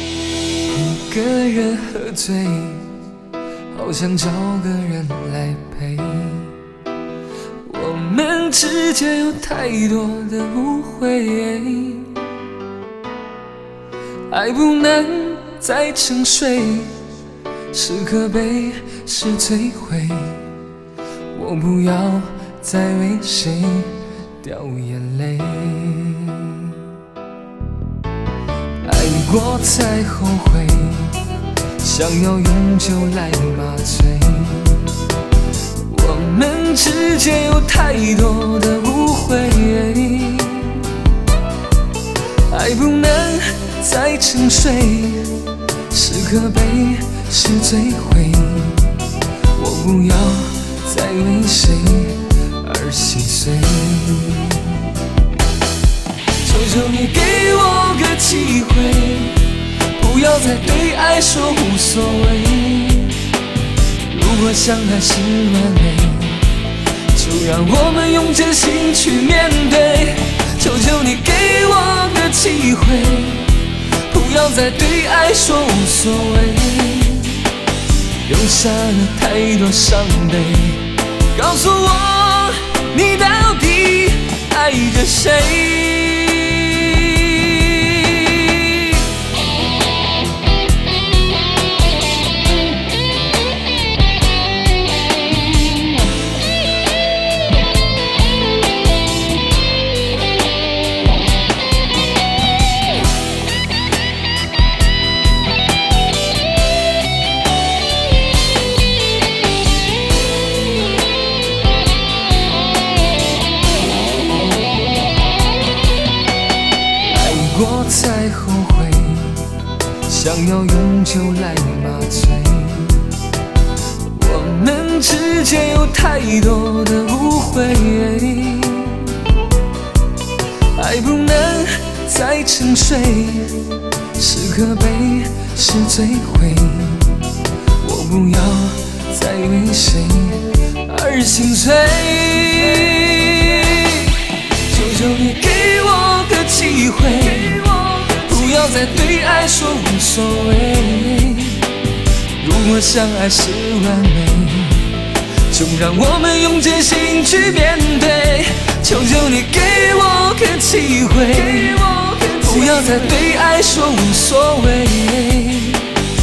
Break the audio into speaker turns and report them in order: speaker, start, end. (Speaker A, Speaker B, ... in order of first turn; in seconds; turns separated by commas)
Speaker A: 0.7-2.9, Speaker A: 3.7-6.5, Speaker A: 7.7-12.2, Speaker A: 14.3-17.0, Speaker A: 17.7-20.4, Speaker A: 21.3-26.8, Speaker A: 28.8-31.2, Speaker A: 31.8-35.0, Speaker A: 35.9-40.9, Speaker A: 42.5-54.9, Speaker A: 56.4-63.2, Speaker A: 64.1-66.5, Speaker A: 67.1-77.5, Speaker A: 78.2-88.8, Speaker A: 117.0-123.1, Speaker A: 124.1-129.2, Speaker A: 130.7-151.7, Speaker A: 152.4-166.0